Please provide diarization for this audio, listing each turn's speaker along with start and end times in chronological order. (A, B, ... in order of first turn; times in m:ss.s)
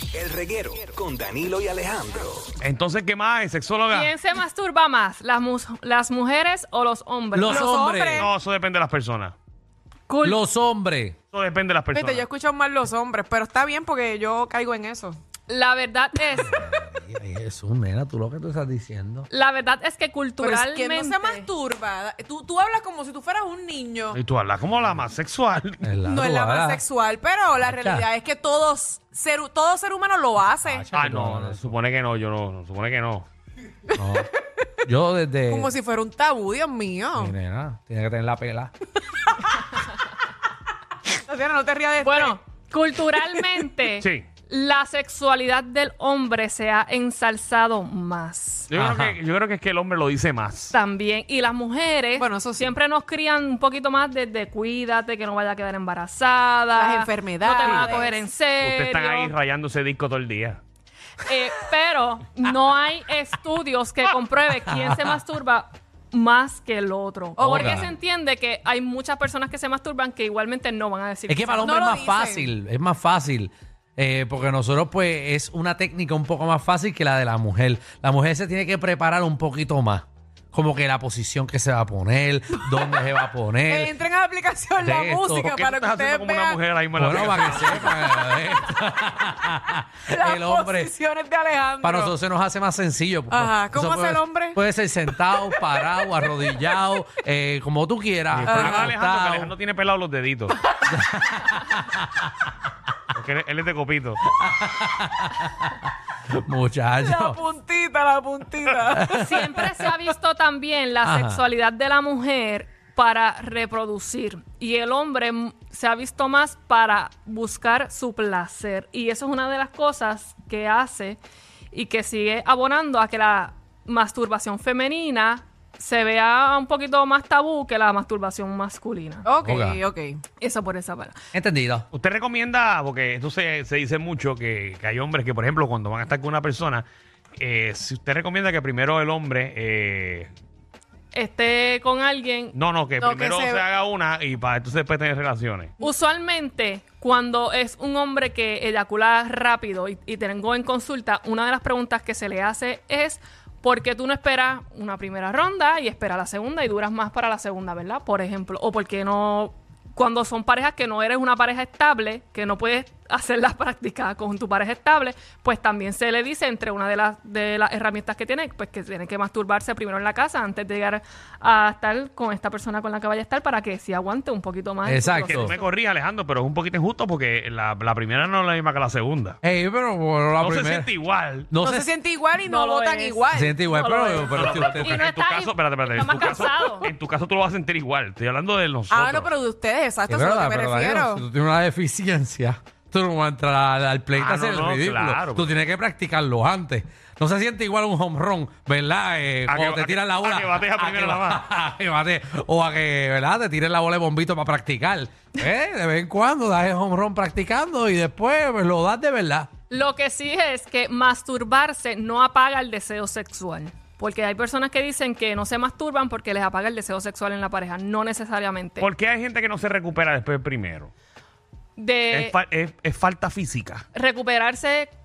0:00.1-0:02.5 A
0:02.6-0:04.1 B
0:03.9-0:07.7 C
0:07.3-0:08.3 D
0:07.5-0:08.3 E
0:08.2-0:09.4 B
0:10.1-0:10.4 C
0:10.2-0:11.2 D
0:11.3-0:12.3 B
0:11.9-0:15.2 E
0:15.5-0:16.7 C
0:16.4-0:19.3 D
0:19.3-0:21.5 C
0:20.4-0:24.2 E
0:24.1-0:25.9 B
0:25.8-0:26.8 D
0:26.0-0:30.9 E
0:27.6-0:28.1 D
0:30.6-0:31.7 D
0:30.9-0:33.3 B
0:33.9-0:34.2 E
0:34.0-0:34.3 D
0:34.8-0:35.7 D
0:35.5-0:37.3 E
0:37.2-0:38.7 D
0:41.3-0:42.4 E
0:42.0-0:48.7 C
0:44.0-0:44.3 B
0:48.7-0:50.7 B
0:48.8-0:49.2 D
0:50.7-0:59.3 C
0:52.2-0:52.8 E
0:56.8-0:58.2 E
0:57.6-0:58.0 B
0:58.6-1:00.6 B
1:01.2-1:12.0 C
1:04.7-1:05.1 D
1:07.4-1:07.9 E
1:07.4-1:07.9 D
1:11.3-1:23.9 D
1:11.6-1:12.5 E
1:23.7-1:26.6 E
1:24.8-1:25.5 D
1:25.4-1:28.2 B
1:27.0-1:30.9 D
1:27.4-1:27.7 E
1:30.1-1:32.1 E
1:31.8-1:39.5 D
1:33.3-1:34.6 E
1:38.3-1:40.6 B
1:38.5-1:38.9 E
1:40.9-1:42.3 D
1:43.1-1:44.2 B
1:44.3-1:45.8 D
1:46.3-1:47.4 D
1:47.0-1:49.4 E
1:49.0-1:49.8 D
1:49.1-2:01.2 C
1:51.0-1:51.4 D
2:01.7-2:09.3 C
2:09.2-2:10.2 E
2:09.4-2:09.8 D
2:10.4-2:11.2 C
2:11.3-2:11.9 D
2:11.9-2:16.9 B
2:17.4-2:20.3 B
2:21.1-2:22.6 C
2:22.5-2:25.7 B
2:23.0-2:23.6 E
2:25.8-2:55.6 C
2:54.8-2:55.6 D
2:55.3-2:59.4 B
2:59.4-3:00.9 D
3:00.4-3:01.5 B
3:01.5-3:01.9 D
3:01.6-3:04.5 E
3:02.4-3:03.3 C
3:03.3-3:05.0 D
3:04.3-3:09.3 B
3:04.8-3:06.9 C
3:08.9-3:11.2 E
3:10.1-3:29.5 D
3:14.2-3:15.5 B
3:19.5-3:21.5 B
3:29.7-3:38.9 C
3:38.8-3:40.9 B
3:41.8-3:42.4 C
3:42.1-3:43.9 B
3:43.9-3:44.9 C